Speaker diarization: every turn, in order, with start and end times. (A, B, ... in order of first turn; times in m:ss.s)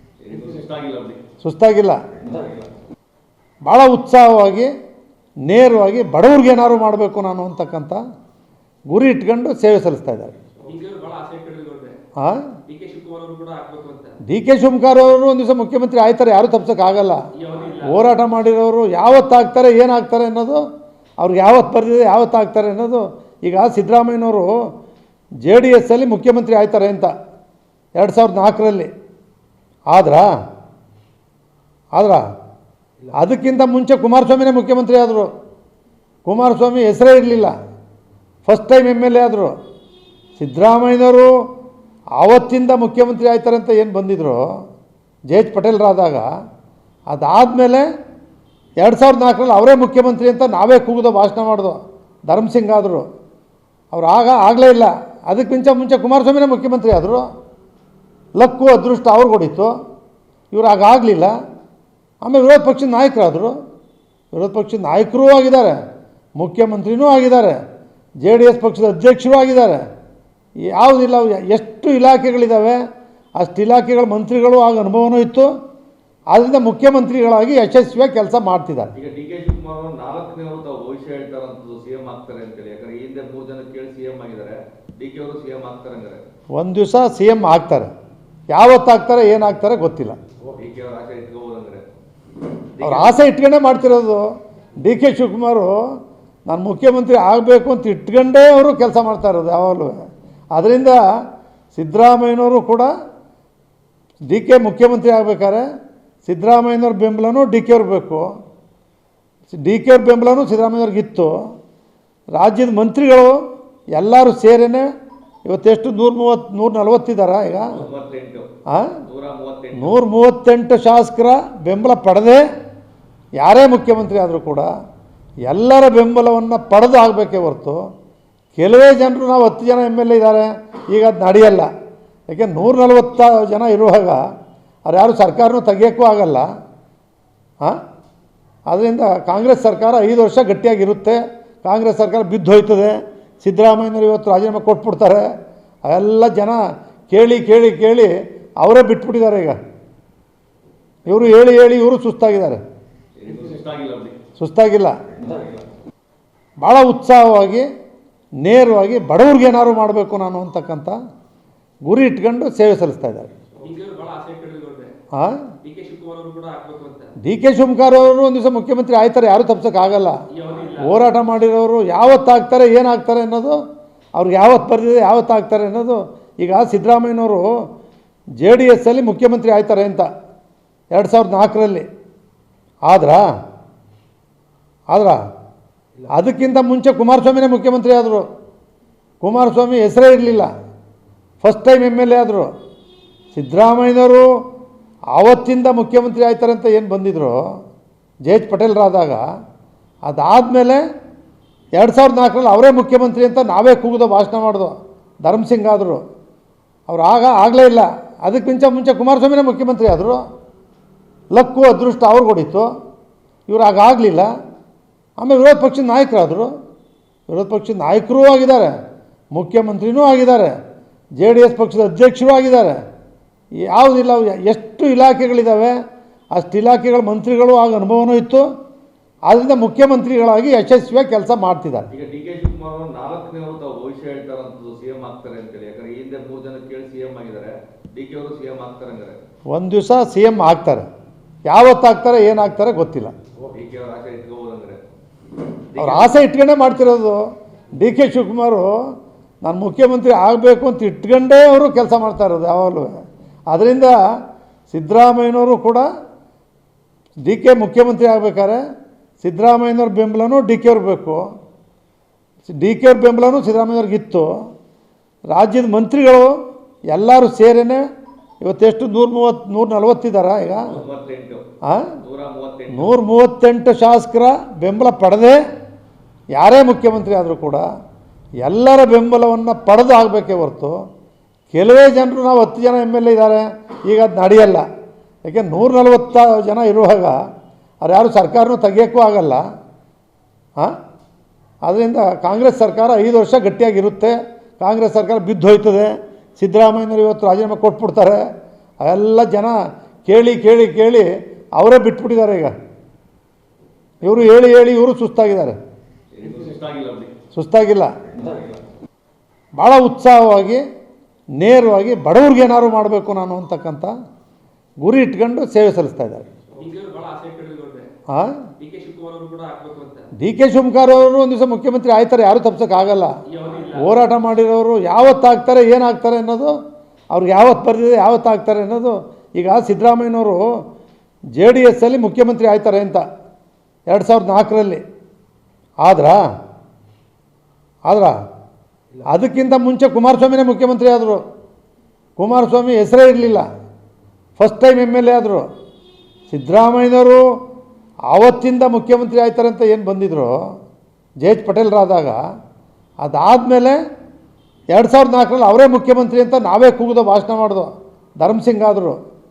0:00.2-0:01.2 A
0:01.4-0:02.0 B
0:03.6-0:04.7 B
0:05.4-0:08.0 B
0:08.9-0:10.3 B
0:10.6-0:12.0 C
0:12.2-0:12.4 B
0:12.7-0:14.2 C
0:14.3-0:17.2 B
0:17.4-0:18.1 C
0:17.8-0:20.6 B
0:21.2-0:24.5 B
0:25.4-0:27.1 B
0:28.0-0:28.9 B
0:29.9-0:30.3 B
0:31.9-0:32.2 B
0:33.1-0:35.3 B
0:36.2-0:37.5 B
0:38.4-0:39.5 B
0:40.4-0:41.3 B
0:42.2-0:44.4 B
0:45.3-0:46.3 B
0:47.1-0:47.8 B
0:48.8-0:53.0 B
0:53.9-0:57.2 B
0:58.4-0:59.7 B
1:00.5-1:01.3 B
1:02.2-1:03.5 B
1:04.3-1:05.8 B
1:06.4-1:07.6 B
1:08.2-1:09.8 B
1:10.7-1:12.8 B
1:13.4-1:15.5 B
1:16.3-1:18.9 B
1:18.9-1:26.2 A
1:26.6-1:27.9 B
1:28.5-1:30.2 B
1:30.5-1:31.8 A
1:32.8-1:33.2 A
1:32.8-1:34.2 B
1:34.8-1:35.8 B
1:36.5-1:40.0 B
1:40.5-1:41.0 B
1:41.7-1:42.9 B
1:44.3-1:45.6 B
1:46.2-1:48.2 B
1:49.5-1:51.3 B
1:52.3-1:53.4 B
1:53.9-1:54.8 B
1:55.4-1:57.8 B
1:57.7-1:58.5 A
1:58.7-1:59.0 B
1:59.0-2:00.0 A
1:59.7-2:02.4 B
2:03.4-2:04.7 B
2:05.4-2:07.8 B
2:08.5-2:11.7 B
2:12.3-2:14.2 B
2:14.9-2:16.4 B
2:18.7-2:25.2 B
2:25.8-2:29.6 B
2:31.1-2:32.6 B
2:33.2-2:34.2 A
2:34.4-2:35.0 B
2:35.2-2:35.5 A
2:36.6-2:37.6 B
2:38.4-2:41.0 B
2:41.8-2:43.3 B
2:43.6-2:44.9 C
2:45.1-2:45.4 B
2:45.6-2:47.1 C
2:47.2-2:50.2 B
2:50.3-2:51.0 C
2:50.8-2:53.6 B
2:54.1-2:57.5 B
2:58.4-3:00.1 B
3:00.9-3:01.8 B
3:02.9-3:03.2 B
3:04.9-3:05.2 B
3:06.1-3:08.2 B
3:09.2-3:10.5 B
3:11.4-3:12.5 B
3:13.3-3:14.2 B
3:15.1-3:17.4 B
3:18.2-3:19.2 B
3:20.0-3:20.8 B
3:21.8-3:26.0 B
3:26.9-3:30.2 B
3:31.3-3:32.7 B
3:33.5-3:34.3 B
3:35.2-3:36.5 B
3:37.3-3:38.7 B
3:39.3-3:40.5 B
3:41.2-3:42.8 B
3:43.7-3:45.8 B
3:46.3-3:48.4 B
3:49.3-3:51.9 B
3:51.9-3:59.1 A
3:59.5-4:00.8 B
4:01.5-4:03.1 B
4:03.5-4:04.8 A
4:05.7-4:06.2 A
4:05.8-4:07.2 B
4:07.8-4:08.7 B
4:09.4-4:12.9 B
4:13.5-4:13.9 B
4:14.7-4:15.8 B
4:17.2-4:18.6 B
4:19.2-4:21.2 B
4:22.5-4:24.3 B
4:25.3-4:26.3 B
4:26.9-4:27.8 B
4:28.4-4:30.7 B
4:30.7-4:31.4 A
4:31.7-4:31.9 B
4:32.0-4:32.9 A
4:32.7-4:35.4 B
4:36.3-4:37.6 B
4:38.4-4:40.7 B
4:41.5-4:44.6 B
4:45.2-4:47.2 B
4:47.8-4:49.4 B
4:51.6-4:58.2 B
4:58.8-4:59.5 B
5:00.0-5:02.5 B
5:04.0-5:05.6 B
5:06.1-5:07.1 A
5:07.3-5:07.9 B
5:09.6-5:10.6 B
5:11.4-5:13.9 B
5:14.8-5:16.3 B
5:16.6-5:17.9 C
5:18.1-5:18.3 B
5:18.6-5:20.1 C
5:20.2-5:23.1 B
5:23.3-5:24.0 C
5:23.8-5:26.5 B
5:27.1-5:30.4 B
5:31.4-5:33.0 B
5:33.9-5:34.8 B
5:35.8-5:36.2 B
5:37.8-5:38.1 B
5:39.1-5:41.2 B
5:42.2-5:43.4 B
5:44.4-5:45.4 B
5:46.3-5:47.2 B
5:48.1-5:50.3 B
5:51.2-5:52.2 B
5:53.0-5:53.8 B
5:54.7-5:59.0 B